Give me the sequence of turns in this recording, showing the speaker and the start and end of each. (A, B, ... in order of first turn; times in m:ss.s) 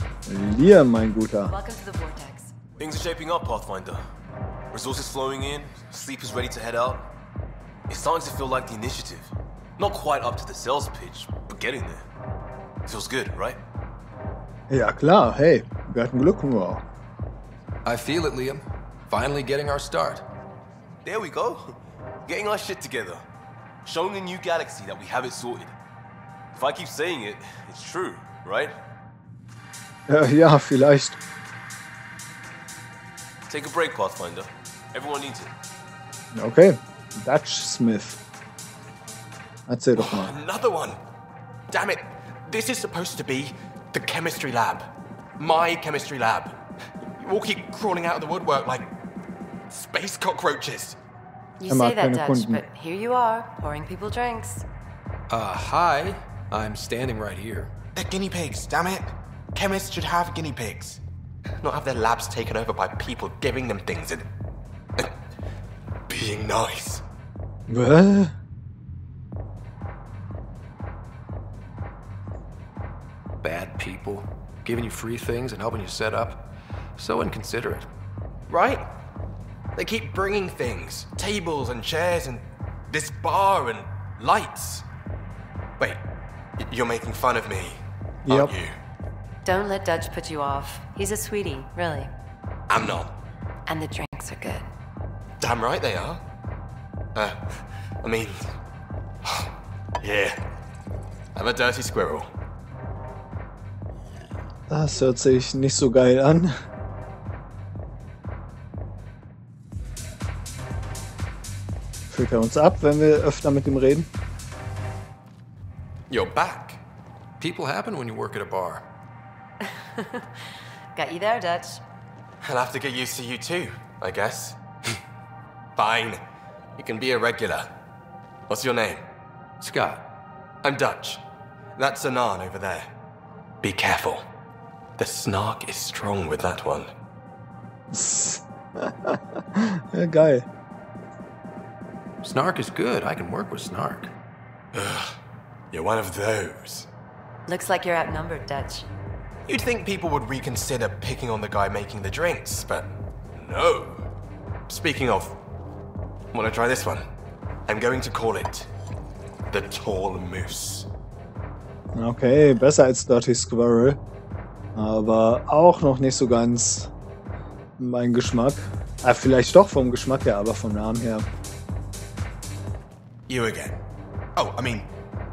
0:00.3-0:01.5 A
0:01.4-0:02.5 B
0:02.8-0:04.0 C
0:04.7-0:07.1 C
0:07.9-0:12.0 C
0:12.8-0:13.6 C
0:14.7-0:16.8 A
0:17.8-0:20.2 D
0:21.0-0:21.7 C
0:22.2-0:23.2 C
0:23.8-0:25.7 C
0:26.5-0:28.7 C
0:30.1-0:31.2 A
0:33.5-0:35.5 C
0:36.3-0:38.2 A
0:39.7-0:40.3 A
0:40.0-0:41.0 E
0:41.7-0:46.5 E
0:47.2-0:48.9 E
0:49.7-0:51.0 E
0:51.6-0:54.6 B
0:51.7-0:52.6 A
0:55.3-0:57.7 D
0:57.9-1:01.0 E
1:01.6-1:04.2 E
1:06.1-1:07.0 E
1:07.7-1:08.3 A
1:13.4-1:17.9 D
1:18.5-1:18.8 E
1:19.8-1:24.8 E
1:26.6-1:28.7 E
1:28.2-1:28.6 A
1:29.4-1:32.1 B
1:32.7-1:33.1 E
1:33.7-1:34.6 B
1:35.4-1:36.2 E
1:37.1-1:38.4 E
1:40.0-1:40.4 E
1:41.4-1:42.3 E
1:44.7-1:46.5 A
1:52.1-1:54.1 A
1:56.1-1:56.8 E
1:57.4-1:58.8 D
1:59.7-2:00.2 B
2:00.9-2:01.8 B
2:02.4-2:04.6 E
2:05.8-2:06.2 E
2:06.8-2:07.7 E
2:08.5-2:09.0 E
2:09.6-2:10.0 D
2:10.6-2:11.2 E
2:11.8-2:12.9 E
2:13.6-2:14.2 E
2:15.0-2:16.9 E
2:17.9-2:20.5 A
2:22.2-2:24.1 D
2:24.7-2:25.1 E
2:25.7-2:26.9 E
2:27.5-2:28.9 B
2:29.5-2:34.0 E
2:34.7-2:35.4 E
2:36.3-2:37.0 E
2:37.7-2:38.7 E
2:39.5-2:40.9 E
2:41.9-2:44.0 A
2:44.7-2:46.9 A
2:47.8-2:51.2 A
2:53.3-2:53.8 E
2:54.4-2:54.9 E